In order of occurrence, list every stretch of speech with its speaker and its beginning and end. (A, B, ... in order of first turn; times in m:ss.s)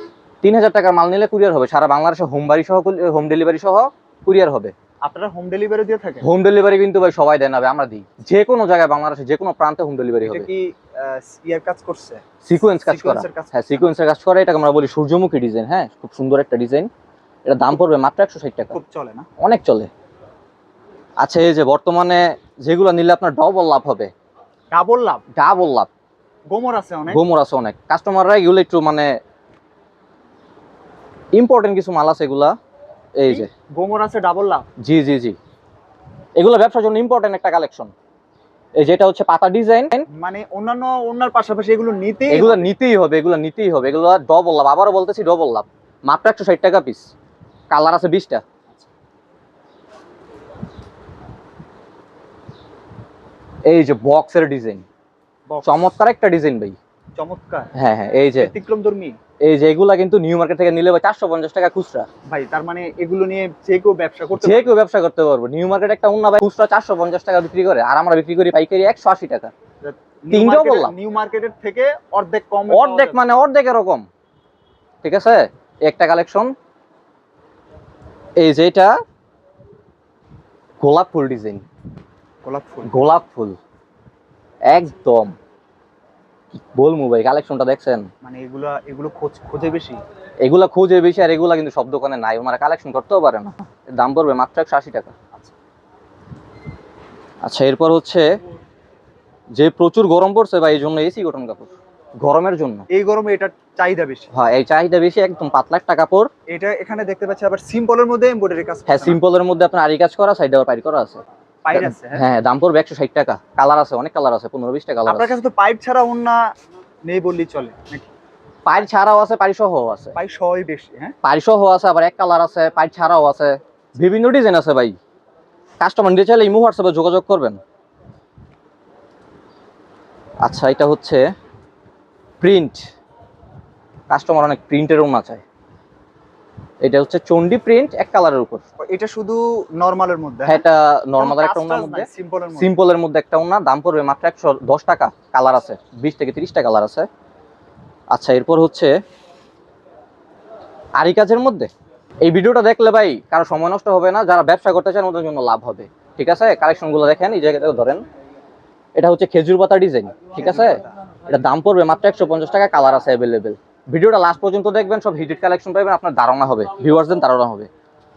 0:00.4-0:04.7 A
0:05.0-0:06.2 B
0:06.2-0:10.5 A
0:10.2-0:13.9 B
0:12.4-0:16.9 A
0:17.4-0:18.7 A
0:18.7-0:19.3 B
0:19.4-0:19.9 A
0:21.2-0:24.1 A
0:24.7-0:25.2 B
0:25.4-0:25.9 A
0:26.5-0:27.2 B
0:27.1-0:29.1 A
0:31.3-0:32.5 A
0:33.2-0:33.5 A
0:33.3-0:34.7 B
0:34.8-0:35.4 A
0:36.4-0:37.9 A
0:38.8-0:40.0 A
0:40.1-0:42.7 B
0:42.3-0:47.1 A
0:47.7-0:48.4 A
0:53.6-0:54.8 A
0:55.5-0:55.9 B
0:55.6-0:56.8 A
0:57.2-0:57.7 B
0:57.7-0:58.5 A
0:58.4-0:59.2 B
0:59.4-1:02.1 A
1:02.3-1:04.8 B
1:04.4-1:09.5 A
1:09.8-1:13.2 B
1:10.3-1:10.9 A
1:12.7-1:14.1 A
1:15.0-1:16.5 A
1:18.4-1:19.0 A
1:20.8-1:21.6 A
1:22.4-1:22.9 B
1:22.8-1:23.6 A
1:24.7-1:25.4 A
1:26.6-1:28.1 A
1:28.2-1:30.0 B
1:30.4-1:35.1 A
1:37.4-1:38.3 A
1:39.5-1:42.8 A
1:42.9-1:44.3 B
1:44.3-1:46.3 A
1:46.5-1:49.2 B
1:48.9-1:51.2 A
1:51.6-1:52.2 B
1:51.7-1:55.3 A
1:55.0-1:56.5 B
1:57.1-1:58.1 B
1:58.6-2:00.2 A
2:00.2-2:01.1 B
2:01.2-2:05.0 A
2:05.8-2:07.6 A
2:10.4-2:11.2 A
2:12.4-2:12.8 A
2:14.1-2:15.4 A
2:16.8-2:18.6 A
2:18.8-2:20.6 B
2:20.5-2:27.1 A
2:21.2-2:22.7 B
2:28.1-2:28.9 A
2:31.0-2:31.7 A
2:32.2-2:38.0 A
2:39.0-2:47.7 A
2:40.4-2:40.9 B